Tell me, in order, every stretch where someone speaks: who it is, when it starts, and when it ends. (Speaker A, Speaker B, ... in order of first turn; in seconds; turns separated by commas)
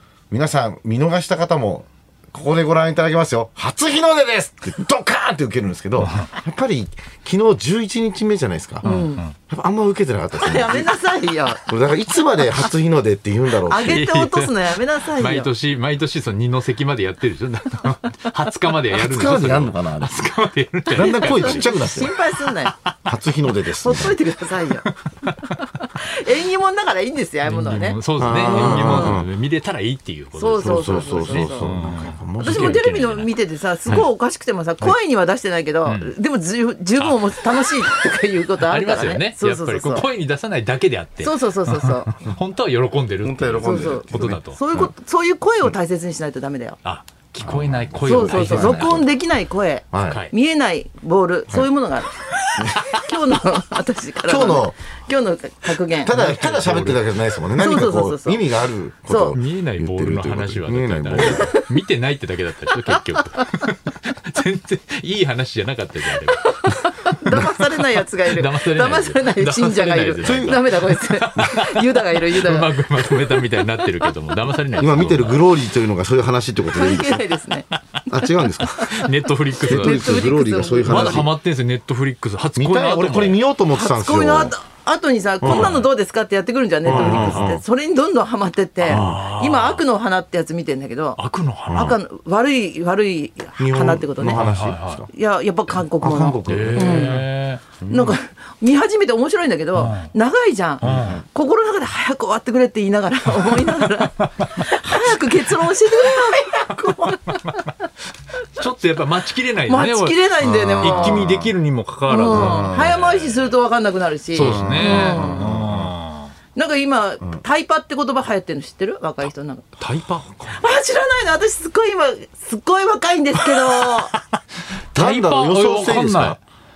Speaker A: 0.3-10.9, Speaker B: 6.0-6.3, Speaker C: 8.8-9.2, Speaker B: 8.8-9.3, Speaker C: 10.3-11.7, Speaker A: 11.7-14.1, Speaker C: 13.7-15.5, Speaker B: 13.8-22.9, Speaker A: 18.9-20.2, Speaker A: 20.9-22.1, Speaker C: 21.0-22.8, Speaker A: 23.1-24.2, Speaker C: 23.8-24.9, Speaker B: 24.8-25.5, Speaker C: 25.5-29.2, Speaker B: 27.4-33.3, Speaker A: 28.2-29.3, Speaker C: 30.3-31.7, Speaker A: 30.6-32.8, Speaker C: 32.4-40.1, Speaker B: 35.8-36.1, Speaker B: 37.0-38.0, Speaker B: 38.5-44.6, Speaker C: 41.2-42.1, Speaker A: 43.2-44.9, Speaker C: 43.6-46.8, Speaker B: 46.8-49.0, Speaker A: 47.4-49.1, Speaker C: 48.0-56.1, Speaker A: 49.9-50.2, Speaker B: 50.0-50.3, Speaker A: 52.6-52.9, Speaker A: 54.2-54.8, Speaker A: 56.0-61.5, Speaker B: 56.1-57.2, Speaker C: 57.5-58.5, Speaker C: 59.1-59.4, Speaker B: 59.3-75.6, Speaker C: 61.2-61.7, Speaker C: 66.1-73.7, Speaker A: 70.2-70.6, Speaker A: 74.8-77.2, Speaker C: 76.7-77.7, Speaker A: 78.1-79.0, Speaker B: 78.6-80.2, Speaker A: 79.6-81.3, Speaker C: 79.7-81.3, Speaker B: 80.8-83.4, Speaker A: 82.6-84.5, Speaker C: 83.7-91.2, Speaker A: 85.4-85.8, Speaker B: 85.4-85.9, Speaker B: 86.8-87.6, Speaker A: 86.8-87.6, Speaker B: 88.8-89.8, Speaker A: 88.9-89.2, Speaker B: 91.2-92.0, Speaker A: 91.7-92.0, Speaker C: 91.7-94.5, Speaker A: 93.6-95.1, Speaker B: 94.2-95.0, Speaker C: 95.1-97.2, Speaker A: 96.0-97.3, Speaker B: 96.5-97.6, Speaker A: 97.8-98.2, Speaker C: 97.9-107.7, Speaker B: 99.7-100.1, Speaker B: 100.8-101.2, Speaker A: 100.8-101.2, Speaker B: 103.4-104.5, Speaker B: 108.5-113.5, Speaker C: 109.7-111.3, Speaker A: 110.4-111.5, Speaker C: 112.1-115.5, Speaker A: 112.3-113.0, Speaker B: 114.3-116.3, Speaker A: 114.4-115.9, Speaker C: 116.5-119.7, Speaker B: 119.8-120.5, Speaker C: 120.5-124.1, Speaker B: 123.6-124.4, Speaker B: 124.9-126.4, Speaker A: 124.9-126.4